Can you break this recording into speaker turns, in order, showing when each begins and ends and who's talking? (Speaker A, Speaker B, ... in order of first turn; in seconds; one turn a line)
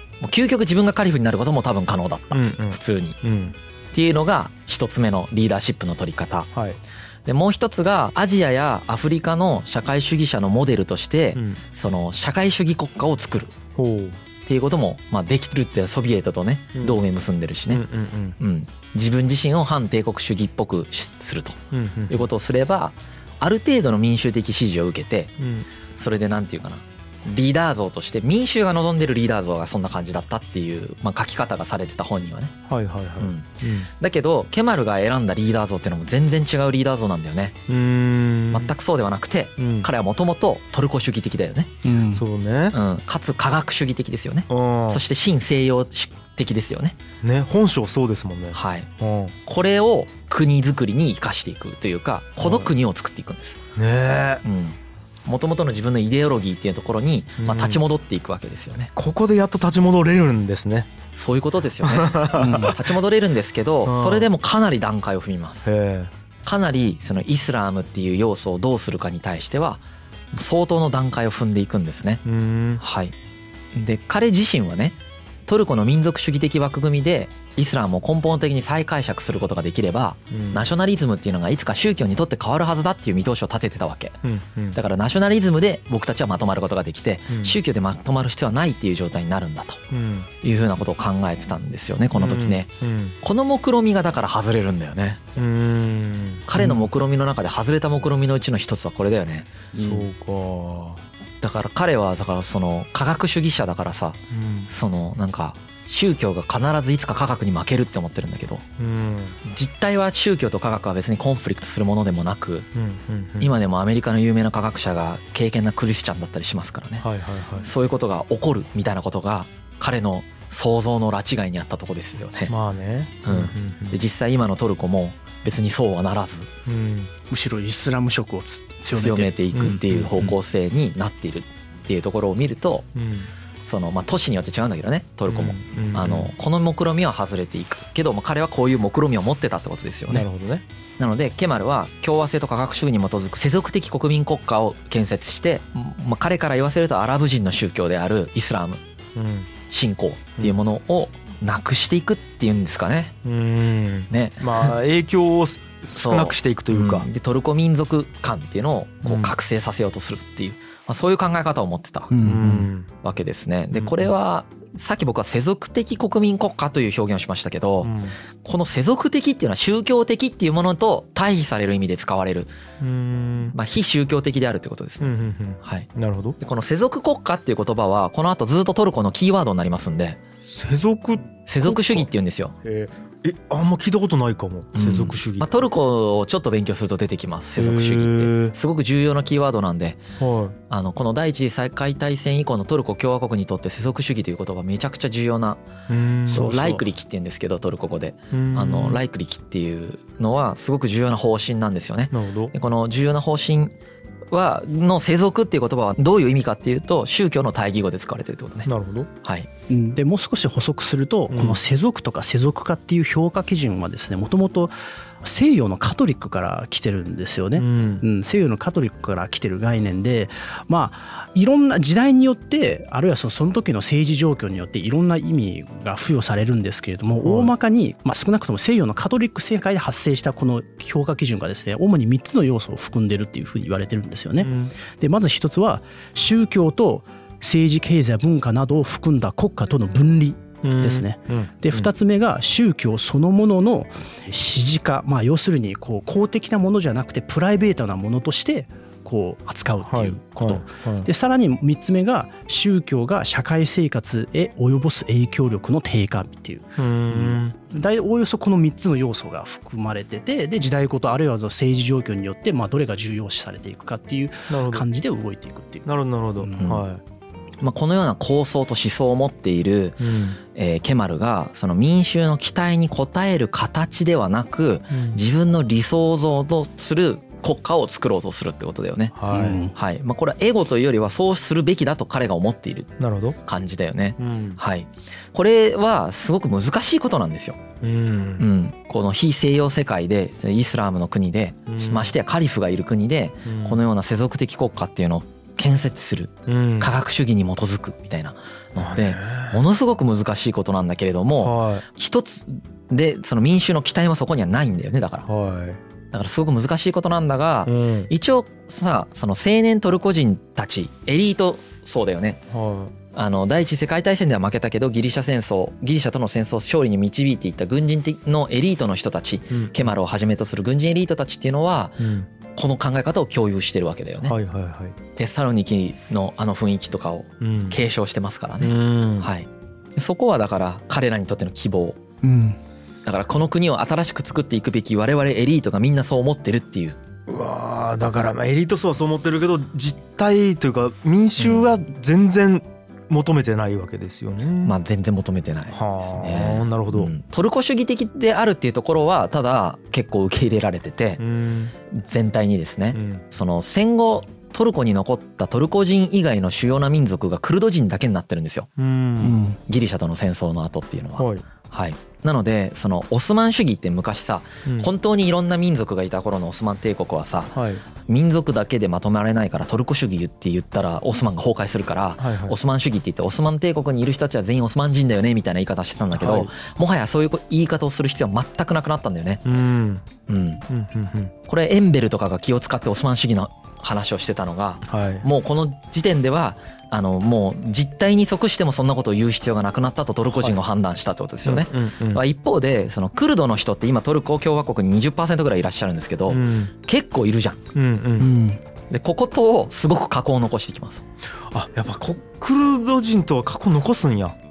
Speaker A: 0.2-3.2
Speaker B: 2.3-3.5
Speaker A: 3.9-6.5
Speaker B: 6.5-6.8
Speaker A: 7.2-13.6
Speaker B: 11.3-11.6
Speaker B: 13.8-14.2
Speaker A: 14.4-17.8
Speaker B: 16.7-17.0
Speaker B: 17.7-18.4
Speaker A: 18.4-25.4
Speaker B: 21.7-22.2
Speaker B: 25.4-25.7
Speaker A: 25.9-32.5
Speaker B: 32.7-33.9
Speaker A: 33.2-37.6
Speaker B: 37.7-38.7
Speaker A: 38.5-41.7
Speaker B: 39.6-39.9
Speaker C: 41.8-42.2
Speaker B: 42.1-42.8
Speaker A: 42.7-47.0
Speaker B: 44.5-45.0
Speaker B: 47.2-49.3
Speaker A: 48.5-48.9
Speaker A: 49.4-53.6
Speaker B: 52.4-52.7
Speaker B: 53.8-54.4
Speaker A: 54.4-58.9
Speaker B: 57.4-57.8
Speaker B: 59.0-60.9
Speaker A: 61.1-65.7
Speaker B: 61.8-62.8
Speaker C: 62.3-62.8
Speaker B: 63.8-64.3
Speaker B: 65.6-66.1
Speaker A: 66.4-72.2
Speaker B: 72.2-72.8
Speaker A: 72.8-73.1
Speaker A: 73.7-84.2
Speaker B: 80.3-80.7
Speaker B: 84.2-84.8
Speaker A: 84.7-89.8
Speaker B: 87.3-87.6
Speaker B: 89.9-90.3
Speaker A: 90.4-92.7
Speaker B: 92.1-93.2
Speaker A: 93.2-95.4
Speaker B: 95.4-96.8
Speaker A: 96.5-99.6
Speaker C: 99.7-100.0
Speaker B: 99.7-101.0
Speaker A: 101.4-108.6
Speaker B: 104.3-104.7
Speaker B: 108.8-109.4
Speaker A: 109.4-112.7
Speaker B: 112.7-113.5
Speaker A: 113.4-117.0
Speaker B: 117.0-117.7
Speaker A: 117.6-122.5
Speaker B: 122.5-124.0
Speaker A: 123.2-126.5
Speaker B: 126.7-127.1
Speaker C: 127.3-130.3
Speaker A: 128.8-132.9
Speaker B: 129.5-130.1
Speaker B: 132.9-133.3
Speaker A: 133.6-140.2
Speaker B: 135.3-136.3
Speaker B: 140.1-140.6
Speaker A: 141.0-148.8
Speaker B: 149.1-149.5
Speaker A: 149.7-153.2
Speaker B: 153.2-157.1
Speaker A: 154.1-154.8
Speaker A: 155.9-162.1
Speaker B: 159.0-159.3
Speaker C: 162.1-162.7
Speaker B: 162.2-162.9
Speaker A: 163.0-172.5
Speaker B: 163.7-164.1
Speaker B: 167.8-168.2
Speaker B: 172.8-173.5
Speaker A: 173.5-175.9
Speaker B: 175.0-176.4
Speaker A: 176.4-180.2
Speaker B: 180.4-182.1
Speaker A: 181.4-182.5
Speaker B: 182.6-185.6
Speaker A: 184.7-190.0
Speaker B: 187.5-188.5
Speaker B: 190.2-190.6
Speaker A: 190.7-195.6
Speaker B: 195.9-196.6
Speaker A: 196.3-203.7
Speaker C: 196.3-196.8
Speaker B: 198.3-199.0
Speaker B: 202.1-202.5
Speaker A: 204.3-208.7
Speaker B: 208.6-209.1
Speaker A: 209.2-209.5
Speaker C: 209.7-266.7
Speaker B: 211.3-211.6
Speaker B: 217.6-218.0
Speaker B: 227.2-227.5
Speaker B: 234.4-234.7
Speaker B: 240.6-241.9
Speaker B: 249.8-251.1
Speaker B: 256.8-257.6
Speaker B: 264.5-264.9
Speaker B: 265.9-267.0
Speaker A: 266.6-266.8
Speaker A: 267.6-279.2
Speaker B: 270.0-270.4
Speaker B: 274.9-275.2
Speaker B: 279.1-279.6
Speaker C: 279.3-279.7
Speaker A: 279.7-287.6
Speaker B: 283.0-283.4
Speaker B: 284.2-284.6
Speaker B: 287.8-288.4
Speaker A: 288.4-305.3
Speaker B: 291.7-292.1
Speaker B: 293.4-293.8
Speaker B: 296.5-296.9
Speaker B: 298.8-299.6
Speaker B: 301.4-301.8
Speaker B: 305.2-305.8
Speaker A: 306.1-312.4
Speaker B: 307.6-308.1
Speaker B: 312.5-312.9
Speaker A: 313.1-324.4
Speaker B: 319.5-319.9
Speaker B: 322.0-322.3
Speaker B: 324.2-325.0
Speaker A: 325.1-332.0
Speaker B: 327.4-327.8
Speaker B: 328.6-329.3
Speaker C: 332.2-332.6
Speaker A: 333.0-337.0
Speaker B: 337.3-344.8
Speaker A: 341.4-341.7
Speaker A: 344.6-351.2
Speaker B: 345.7-347.1
Speaker B: 351.2-351.7
Speaker A: 351.9-358.7
Speaker B: 352.9-353.2
Speaker B: 358.8-359.4
Speaker C: 359.2-359.6
Speaker A: 359.6-379.4
Speaker B: 361.2-361.4
Speaker B: 367.5-367.8
Speaker B: 372.2-372.6
Speaker B: 376.1-376.5
Speaker B: 379.4-380.0
Speaker A: 380.3-380.6
Speaker B: 380.7-381.3
Speaker A: 381.4-397.6
Speaker B: 384.8-385.2
Speaker B: 390.3-390.6
Speaker B: 391.4-392.2
Speaker B: 396.3-396.7
Speaker B: 397.7-398.3
Speaker C: 398.2-398.6
Speaker A: 398.9-401.0
Speaker B: 401.5-404.4